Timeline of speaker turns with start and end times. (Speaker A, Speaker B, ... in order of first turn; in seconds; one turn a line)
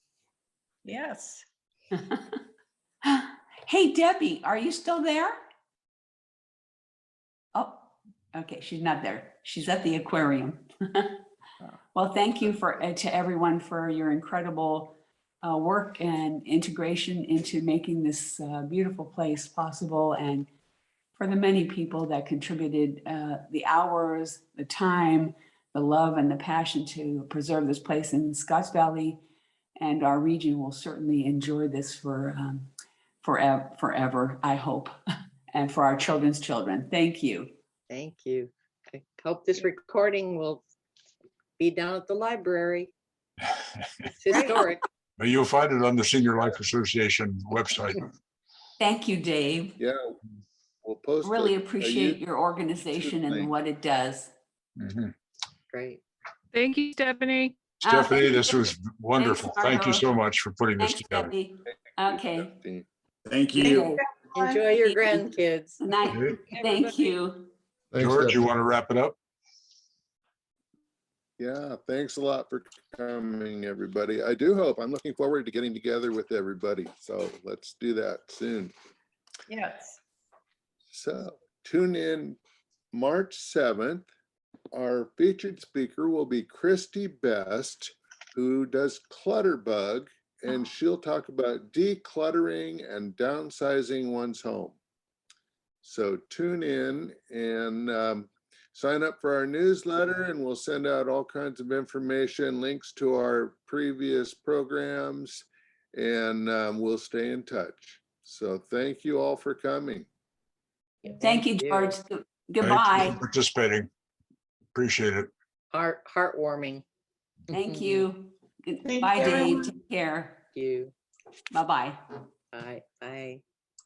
Speaker A: 0.8-1.4
Speaker B: 1.9-2.4
Speaker B: 3.0-5.4
Speaker B: 7.5-11.2
Speaker B: 11.9-20.5
Speaker B: 21.2-29.2
Speaker B: 29.8-32.7
Speaker B: 33.2-34.9
Speaker B: 35.5-37.5
Speaker C: 37.9-40.6
Speaker C: 41.6-42.9
Speaker C: 44.1-44.8
Speaker D: 45.2-48.1
Speaker B: 48.8-49.8
Speaker E: 49.8-50.2
Speaker E: 50.8-52.2
Speaker B: 51.2-54.3
Speaker E: 52.9-53.5
Speaker D: 54.8-55.1
Speaker C: 55.7-56.0
Speaker A: 56.5-57.6
Speaker D: 57.8-61.3
Speaker B: 57.8-60.1
Speaker B: 60.8-62.5
Speaker E: 62.1-62.9
Speaker D: 63.5-63.9
Speaker B: 63.5-64.0
Speaker A: 63.6-64.6
Speaker C: 64.3-65.9
Speaker B: 64.7-67.5
Speaker D: 66.1-66.4
Speaker C: 66.5-67.0
Speaker E: 68.0-68.4
Speaker D: 68.0-69.2
Speaker E: 71.4-78.7
Speaker A: 79.5-79.8
Speaker E: 80.9-82.4
Speaker E: 82.9-84.1
Speaker E: 84.7-94.8
Speaker E: 95.8-110.1
Speaker C: 111.0-112.0
Speaker B: 111.2-113.2
Speaker D: 112.6-113.9
Speaker D: 114.7-115.3
Speaker C: 115.7-116.8
Speaker C: 117.5-118.1
Speaker B: 117.5-120.4
Speaker A: 119.0-119.5
Speaker C: 120.5-120.9
Speaker B: 121.5-122.0
Speaker C: 122.5-123.4